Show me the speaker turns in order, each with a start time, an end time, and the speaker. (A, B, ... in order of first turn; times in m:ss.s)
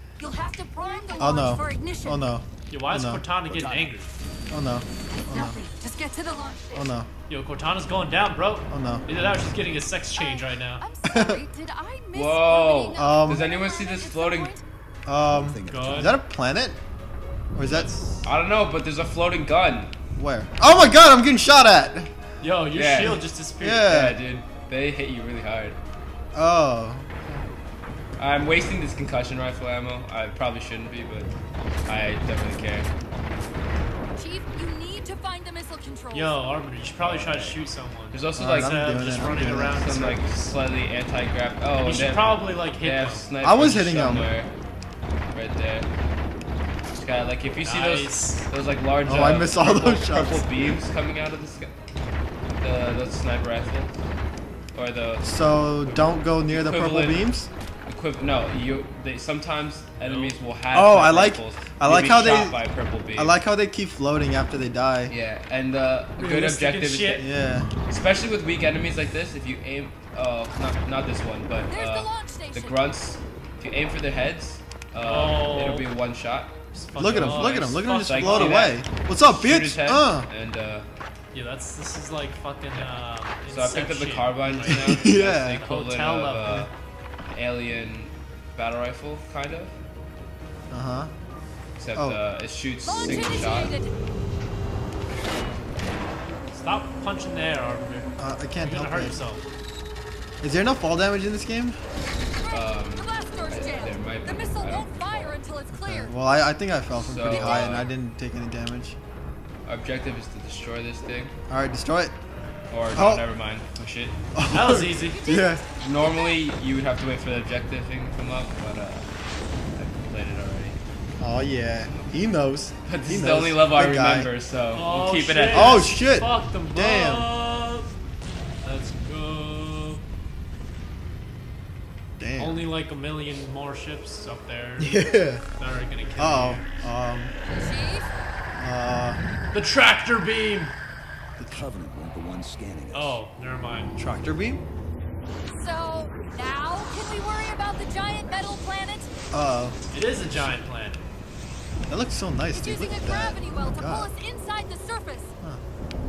0:00.2-0:02.3 A
0:01.2-0:03.3 B
0:02.7-0:04.1 C
0:03.5-0:04.0 D
0:04.5-0:05.6 B
0:05.1-0:06.8 A
0:06.7-0:07.1 B
0:07.3-0:10.8 C
0:08.7-0:09.3 B
0:10.2-0:14.6 A
0:11.0-0:11.4 B
0:12.1-0:14.5 E
0:12.9-0:13.5 B
0:15.1-0:16.8 B
0:15.2-0:16.2 D
0:15.7-0:16.1 C
0:17.5-0:17.9 B
0:17.7-0:18.2 C
0:18.2-0:19.9 E
0:20.2-0:22.1 B
0:22.4-0:23.9 C
0:22.7-0:23.2 E
0:23.6-0:24.2 B
0:23.8-0:25.8 E
0:26.3-0:27.1 B
0:28.2-0:31.3 E
0:31.9-0:32.9 E
0:34.2-0:36.4 A
0:36.1-0:40.6 C
0:37.0-0:38.8 E
0:38.4-0:39.8 B
0:39.6-0:44.5 E
0:41.8-0:43.3 C
0:43.4-0:44.3 B
0:45.3-0:45.9 E
0:46.9-0:51.7 E
0:47.6-0:48.5 C
0:49.0-0:50.4 B
0:52.6-0:54.0 E
0:54.7-0:57.3 E
0:55.2-0:57.5 B
0:57.9-1:03.4 E
1:00.0-1:00.4 C
1:00.7-1:02.6 B
1:03.1-1:05.1 B
1:05.1-1:07.3 E
1:06.2-1:07.3 C
1:07.2-1:07.7 B
1:07.9-1:20.9 E
1:11.7-1:12.8 A
1:15.0-1:15.9 C
1:16.7-1:18.8 C
1:17.0-1:20.3 B
1:21.3-1:26.7 C
1:23.5-1:26.7 E
1:24.5-1:25.6 B
1:27.3-1:29.8 E
1:30.7-1:31.1 B
1:31.8-1:33.8 E
1:32.0-1:32.2 B
1:32.9-1:33.9 A
1:36.5-1:39.4 C
1:38.2-1:39.2 B
1:40.4-1:41.8 B
1:42.4-1:46.2 A
1:42.5-1:45.4 E
1:45.7-1:49.0 B
1:46.9-1:47.9 E
1:47.4-1:47.7 A
1:49.7-1:51.3 E
1:51.5-1:52.2 B
1:52.7-1:54.2 E
1:52.9-1:53.3 B
1:54.3-1:55.6 B
1:54.5-1:55.3 C
1:55.1-1:56.4 A
1:55.8-1:59.1 E
1:59.8-2:00.8 E
2:01.2-2:04.3 B
2:02.9-2:05.9 E
2:04.7-2:07.9 C
2:05.5-2:07.3 B
2:08.6-2:10.0 C
2:12.2-2:12.7 B
2:12.4-2:15.0 C
2:14.8-2:15.4 B
2:15.6-2:16.7 C
2:16.2-2:17.3 B
2:17.5-2:18.1 A
2:18.5-2:19.2 B
2:19.5-2:20.7 C
2:21.4-2:21.6 B
2:21.5-2:23.2 D
2:22.9-2:23.9 C
2:24.0-2:24.6 B
2:25.5-2:29.1 A
2:29.3-2:29.8 B
2:29.9-2:31.0 C
2:31.9-2:34.1 B
2:32.5-2:35.3 A